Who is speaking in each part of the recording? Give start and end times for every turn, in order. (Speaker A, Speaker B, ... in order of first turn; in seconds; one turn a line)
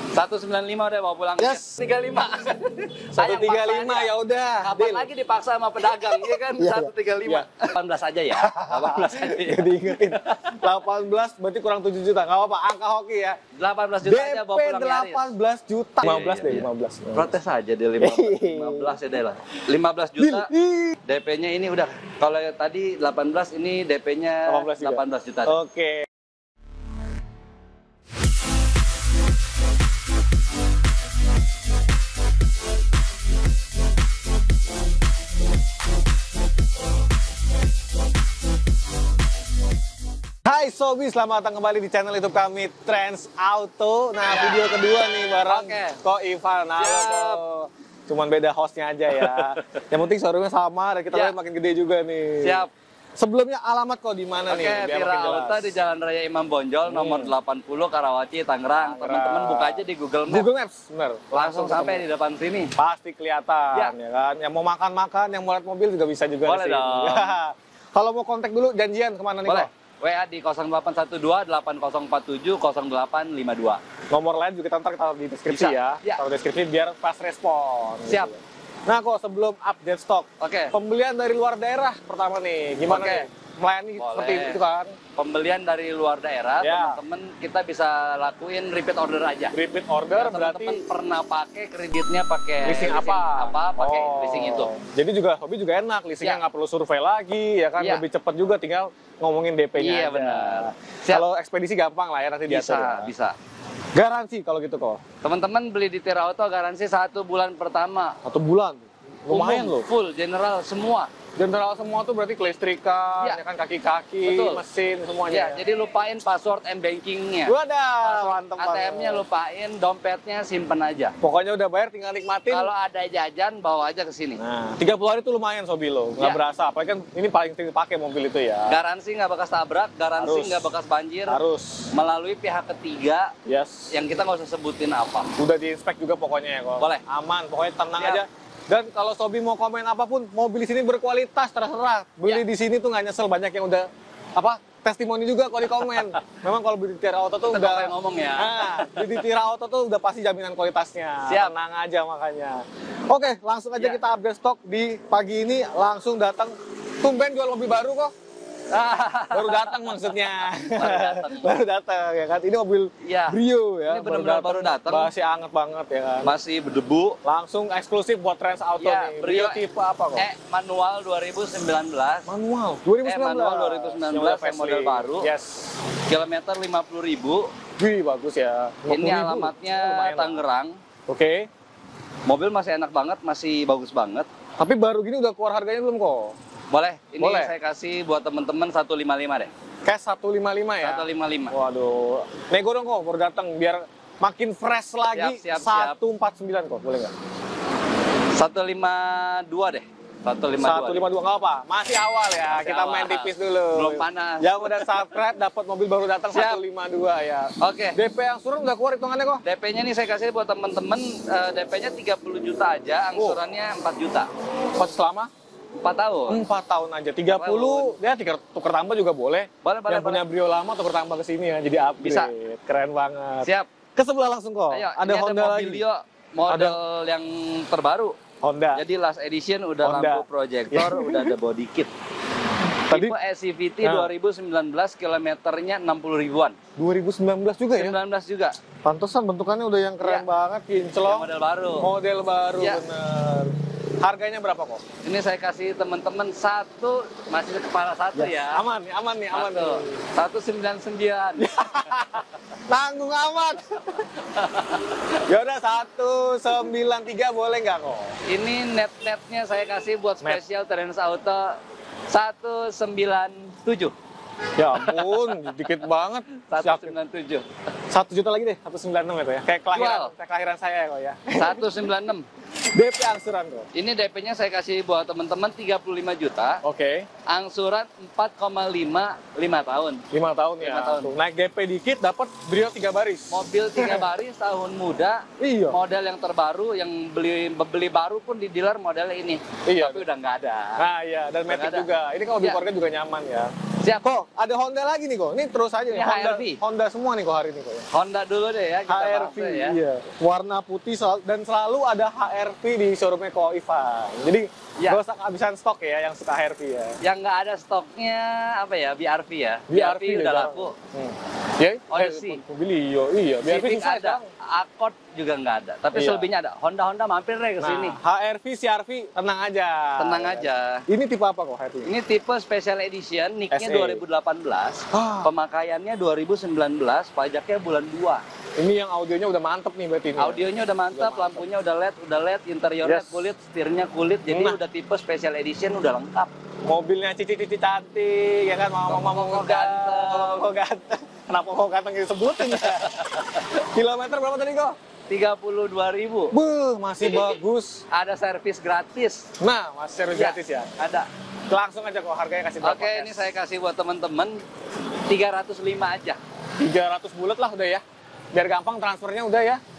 Speaker A: 0.1-10.4
Speaker B: 3.1-5.1
Speaker B: 6.6-7.5
Speaker B: 8.3-13.4
Speaker A: 13.6-15.3
Speaker B: 14.0-17.3
Speaker A: 16.0-20.5
Speaker B: 18.0-19.0
Speaker B: 20.2-21.0
Speaker A: 21.0-25.5
Speaker B: 24.5-26.1
Speaker B: 40.4-52.6
Speaker A: 44.3-44.6
Speaker A: 45.4-46.0
Speaker A: 46.8-47.4
Speaker A: 49.1-49.8
Speaker A: 51.1-51.4
Speaker A: 52.4-52.7
Speaker B: 53.2-55.7
Speaker A: 54.5-60.5
Speaker B: 56.9-57.3
Speaker B: 58.8-62.0
Speaker A: 61.3-62.7
Speaker B: 62.8-69.7
Speaker A: 66.4-67.4
Speaker A: 69.4-73.8
Speaker B: 74.1-84.9
Speaker A: 75.5-76.2
Speaker A: 78.0-78.3
Speaker A: 80.4-80.7
Speaker A: 82.8-83.3
Speaker A: 84.0-84.6
Speaker A: 85.1-89.5
Speaker B: 86.6-87.0
Speaker B: 89.5-90.8
Speaker A: 90.1-94.7
Speaker B: 92.6-103.1
Speaker A: 97.8-98.0
Speaker A: 99.8-101.2
Speaker A: 102.5-103.3
Speaker B: 103.9-105.0
Speaker A: 105.2-108.2
Speaker B: 108.2-109.9
Speaker A: 109.3-111.1
Speaker B: 111.4-115.6
Speaker A: 114.2-114.6
Speaker A: 115.3-121.1
Speaker B: 117.4-119.2
Speaker B: 121.2-122.7
Speaker A: 122.5-124.4
Speaker B: 124.4-128.8
Speaker A: 128.7-131.4
Speaker B: 130.2-130.7
Speaker B: 131.3-131.9
Speaker A: 131.9-133.3
Speaker B: 133.4-133.9
Speaker A: 133.9-135.3
Speaker B: 135.4-158.1
Speaker A: 137.9-138.2
Speaker A: 147.4-149.2
Speaker A: 151.3-151.5
Speaker A: 158.7-161.5
Speaker B: 159.3-166.3
Speaker A: 163.0-165.1
Speaker A: 166.2-167.2
Speaker B: 167.2-170.3
Speaker A: 168.8-169.6
Speaker A: 170.2-172.3
Speaker B: 172.3-175.8
Speaker A: 173.0-175.3
Speaker A: 176.1-177.5
Speaker B: 177.8-180.4
Speaker A: 178.9-180.8
Speaker B: 181.1-181.5
Speaker A: 182.2-184.3
Speaker B: 184.6-186.3
Speaker A: 186.7-189.5
Speaker B: 187.2-187.5
Speaker B: 189.8-197.1
Speaker A: 190.8-191.5
Speaker A: 195.1-196.0
Speaker A: 198.3-201.1
Speaker B: 200.5-209.4
Speaker A: 202.5-205.0
Speaker A: 206.3-206.6
Speaker A: 207.6-208.0
Speaker A: 209.4-214.3
Speaker B: 213.1-213.4
Speaker B: 214.8-215.3
Speaker A: 215.8-216.4
Speaker B: 216.3-225.8
Speaker A: 217.3-217.9
Speaker A: 219.6-220.2
Speaker A: 222.0-222.3
Speaker A: 223.4-223.7
Speaker A: 224.7-228.2
Speaker B: 226.5-226.8
Speaker B: 228.4-228.8
Speaker A: 228.7-231.9
Speaker B: 229.8-231.3
Speaker A: 232.9-236.6
Speaker B: 232.9-233.1
Speaker B: 233.8-234.1
Speaker B: 236.8-238.0
Speaker A: 237.8-238.6
Speaker B: 238.8-241.3
Speaker A: 241.0-241.9
Speaker B: 241.8-244.8
Speaker A: 245.0-248.6
Speaker B: 248.1-250.0
Speaker A: 249.3-252.2
Speaker B: 251.4-254.1
Speaker A: 254.1-255.0
Speaker B: 255.3-258.1
Speaker A: 258.3-261.6
Speaker A: 262.1-263.9
Speaker B: 264.6-266.9
Speaker A: 264.7-265.8
Speaker A: 266.4-267.4
Speaker B: 267.9-271.9
Speaker A: 269.7-270.1
Speaker A: 271.4-272.2
Speaker B: 272.7-273.7
Speaker A: 273.7-276.6
Speaker B: 276.6-277.1
Speaker A: 277.3-280.0
Speaker B: 280.1-284.1
Speaker A: 280.6-281.1
Speaker A: 283.3-290.8
Speaker B: 285.4-285.8
Speaker B: 289.6-290.0
Speaker B: 290.8-297.9
Speaker A: 291.5-292.6
Speaker A: 293.8-294.1
Speaker A: 295.9-296.6
Speaker A: 297.9-299.8
Speaker B: 298.9-307.0
Speaker A: 307.0-310.7
Speaker B: 309.7-314.3
Speaker A: 311.9-312.4
Speaker A: 313.4-318.0
Speaker B: 315.9-316.3
Speaker B: 317.6-321.9
Speaker A: 320.0-320.8
Speaker A: 321.8-328.2
Speaker B: 323.5-324.0
Speaker B: 324.9-325.3
Speaker B: 328.6-331.4
Speaker A: 330.2-336.3
Speaker B: 332.8-333.3
Speaker B: 334.3-334.6
Speaker B: 336.6-344.8
Speaker A: 338.9-340.5
Speaker A: 342.4-343.4
Speaker A: 345.1-346.3
Speaker B: 346.3-347.8
Speaker A: 347.1-347.3
Speaker A: 347.9-349.3
Speaker B: 349.4-350.7
Speaker A: 350.1-351.1
Speaker B: 351.5-353.3
Speaker A: 352.6-354.4
Speaker A: 355.1-356.2
Speaker B: 356.6-359.6